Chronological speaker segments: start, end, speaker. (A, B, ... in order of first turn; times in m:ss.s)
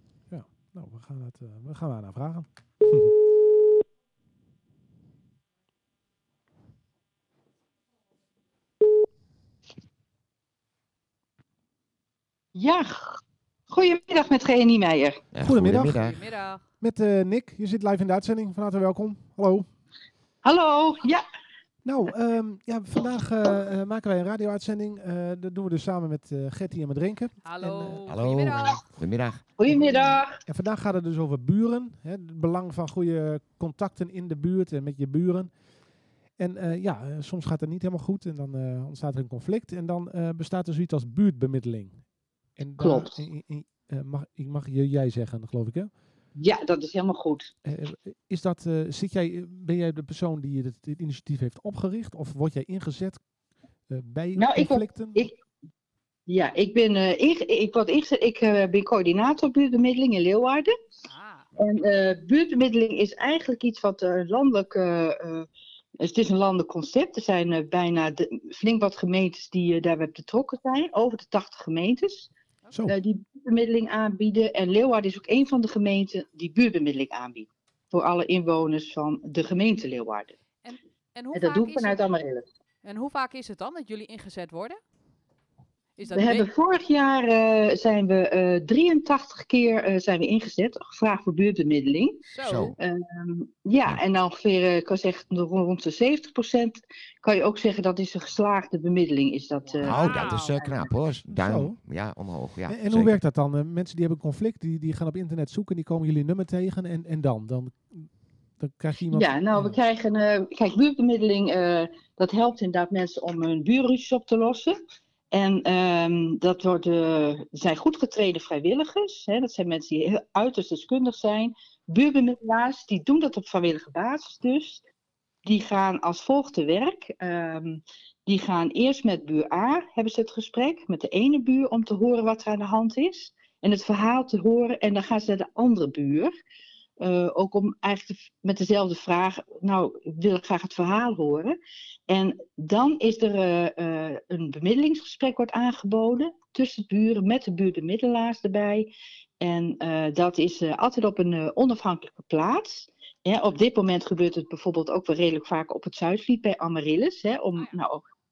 0:00.3-0:03.1 A
0:12.5-0:13.2 B
0:13.7-0:15.2 B
0:15.3-0:16.2 C
0:15.4-0:16.0 A
0:16.0-0:16.6 D
0:16.8-0:19.7 A
0:20.4-0:21.2 B
0:21.8-0:28.1 A
0:27.4-0:28.8 D
0:28.1-0:30.1 C
0:29.6-0:30.4 B
0:30.4-0:35.5 A
0:36.4-0:45.9 A
0:42.8-0:43.2 B
0:46.3-0:47.5 B
0:47.6-0:53.2 A
0:53.9-0:55.3 A
0:54.4-0:55.3 B
0:56.3-1:00.7 B
1:01.0-1:01.5 D
1:01.6-1:05.5 B
1:06.0-1:12.3 B
1:12.9-1:20.3 B
1:20.6-1:22.1 D
1:21.3-1:22.4 B
1:22.8-1:24.8 D
1:26.0-1:26.5 D
1:26.1-1:32.2 B
1:32.2-1:32.8 D
1:32.4-1:32.7 C
1:32.8-1:40.9 B
1:39.6-1:40.6 D
1:39.8-1:43.2 C
1:41.3-1:41.8 A
1:42.6-1:49.8 A
1:49.1-1:54.8 B
1:55.3-2:04.8 B
2:05.4-2:16.3 B
2:17.0-2:21.6 B
2:22.1-2:38.0 B